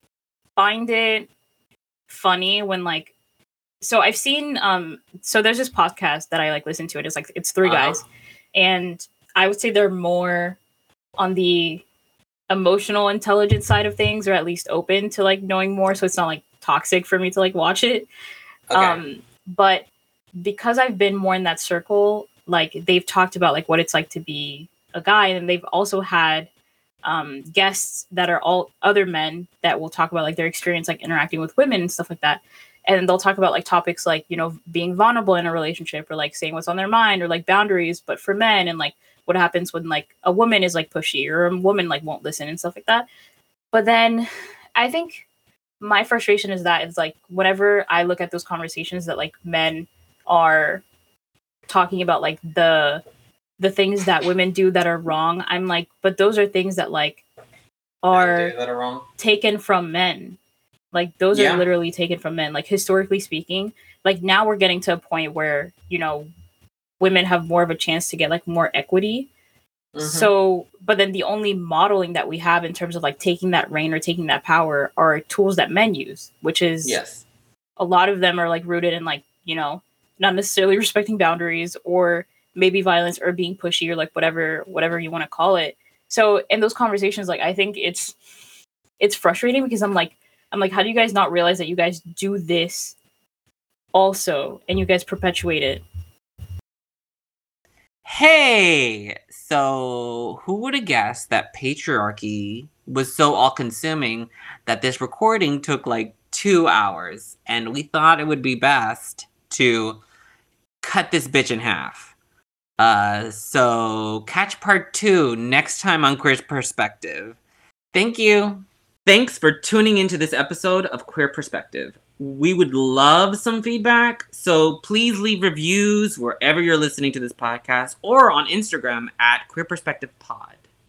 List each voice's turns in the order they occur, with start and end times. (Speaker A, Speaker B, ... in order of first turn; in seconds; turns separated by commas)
Speaker A: 0.6-1.3, Speaker A: 2.1-3.1, Speaker A: 3.8-10.6, Speaker B: 7.6-8.0, Speaker A: 11.2-11.8, Speaker A: 12.5-18.1, Speaker B: 18.7-19.0, Speaker A: 18.7-26.5, Speaker A: 27.0-43.1, Speaker A: 43.7-45.2, Speaker A: 45.8-50.8, Speaker A: 51.7-53.0, Speaker A: 53.6-57.2, Speaker A: 58.0-58.5, Speaker B: 58.1-59.1, Speaker A: 59.2-60.4, Speaker A: 60.9-66.3, Speaker B: 61.3-61.6, Speaker A: 67.0-69.3, Speaker B: 70.0-70.3, Speaker A: 70.0-77.0, Speaker B: 76.8-77.2, Speaker A: 77.8-88.2, Speaker A: 89.0-93.0, Speaker A: 93.9-95.8, Speaker B: 98.0-110.0, Speaker B: 110.8-112.1, Speaker B: 112.8-117.4, Speaker B: 117.9-130.6